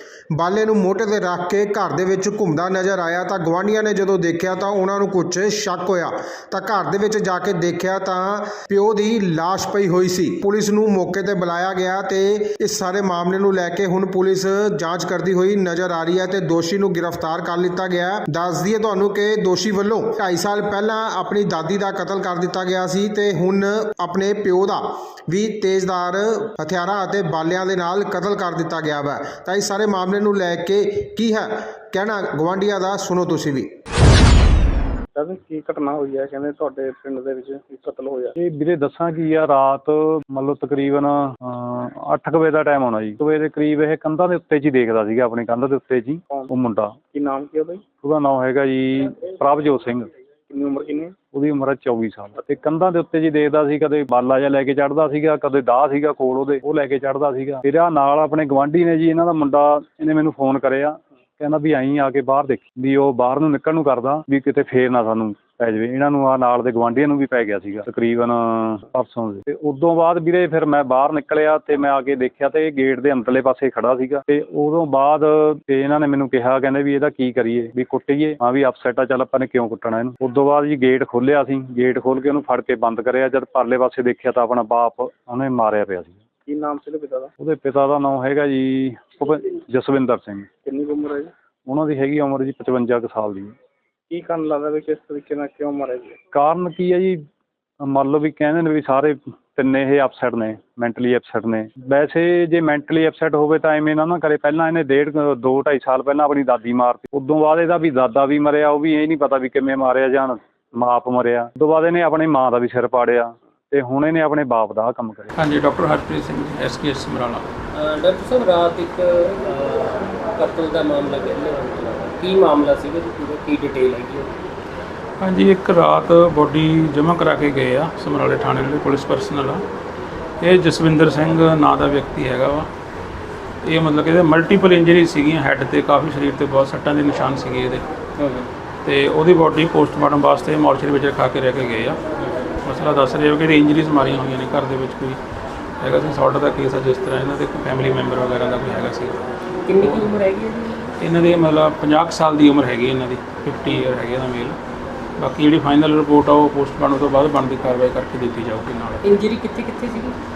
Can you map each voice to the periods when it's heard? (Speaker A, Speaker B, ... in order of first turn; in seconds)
Speaker A: 0.3-33.7
Speaker B: 35.1-38.3, 47.1-47.8, 50.5-51.1, 86.5-87.3, 90.6-91.3, 94.1-96.2
Speaker C: 38.4-47.0, 48.0-50.1, 51.3-86.2, 87.4-90.5, 91.7-93.5, 96.3-97.2, 97.8-115.3
Speaker D: 115.3-117.4, 125.2-129.6, 130.4-132.7, 133.6-137.8, 138.8-142.0, 142.6-145.2, 145.8-149.2, 149.8-150.1, 151.0-154.6, 155.2-159.2
Speaker E: 117.7-124.4, 138.2-138.5, 149.7-150.9, 159.0-160.2